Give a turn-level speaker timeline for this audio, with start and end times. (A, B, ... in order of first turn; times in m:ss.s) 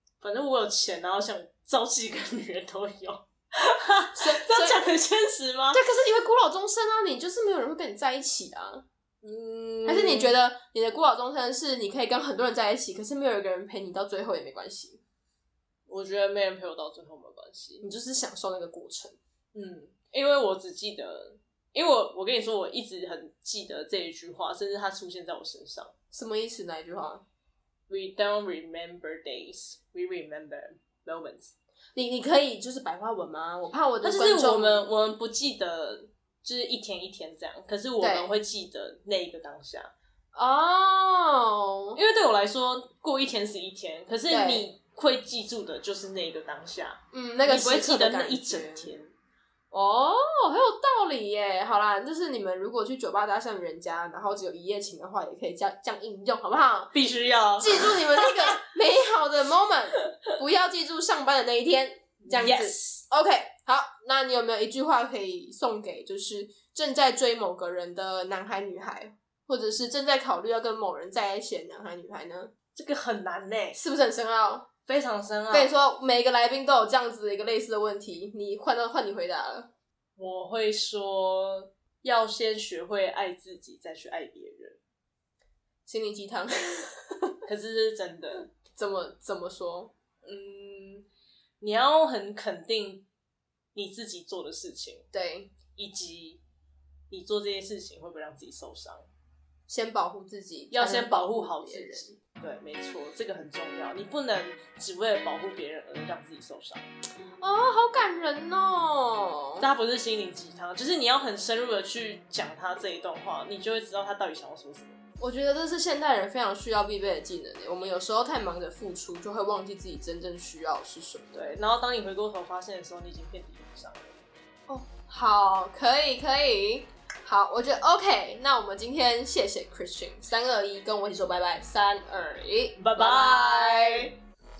0:00.2-0:05.8 A
0:04.1-0:04.9 B
0:05.7-0:08.8 B
0:09.2-0:10.3 A
0:09.8-0:15.0 B
0:15.9-0:17.8 A
0:17.8-0:19.2 B
0:19.5-0:25.9 A
0:26.1-0:27.2 B
0:27.9-0:31.5 A
0:31.9-0:34.9 B
0:34.0-0:39.9 A
0:38.0-0:38.3 B
0:40.3-0:42.0 B
0:42.0-0:49.1 A
0:44.3-0:44.6 B
0:47.1-0:48.9 B
0:49.7-0:56.9 B
0:56.9-0:58.6 A
0:57.6-1:12.5 B
1:02.3-1:03.0 A
1:12.7-1:13.8 A
1:13.7-1:14.7 B
1:14.8-1:15.8 A
1:15.5-1:19.7 B
1:20.2-1:24.8 A
1:25.9-1:27.3 B
1:27.4-1:28.5 A
1:28.7-1:29.9 B
1:30.2-1:31.0 A
1:31.6-1:33.0 A
1:33.7-1:35.0 A
1:35.1-1:35.5 B
1:35.7-1:36.4 A
1:37.1-1:39.1 A
1:39.7-1:42.2 B
1:40.7-1:46.8 A
1:47.4-1:49.6 B
1:49.6-1:55.0 A
1:55.2-2:01.6 B
2:01.3-2:04.2 A
2:04.7-2:14.1 B
2:12.8-2:14.2 A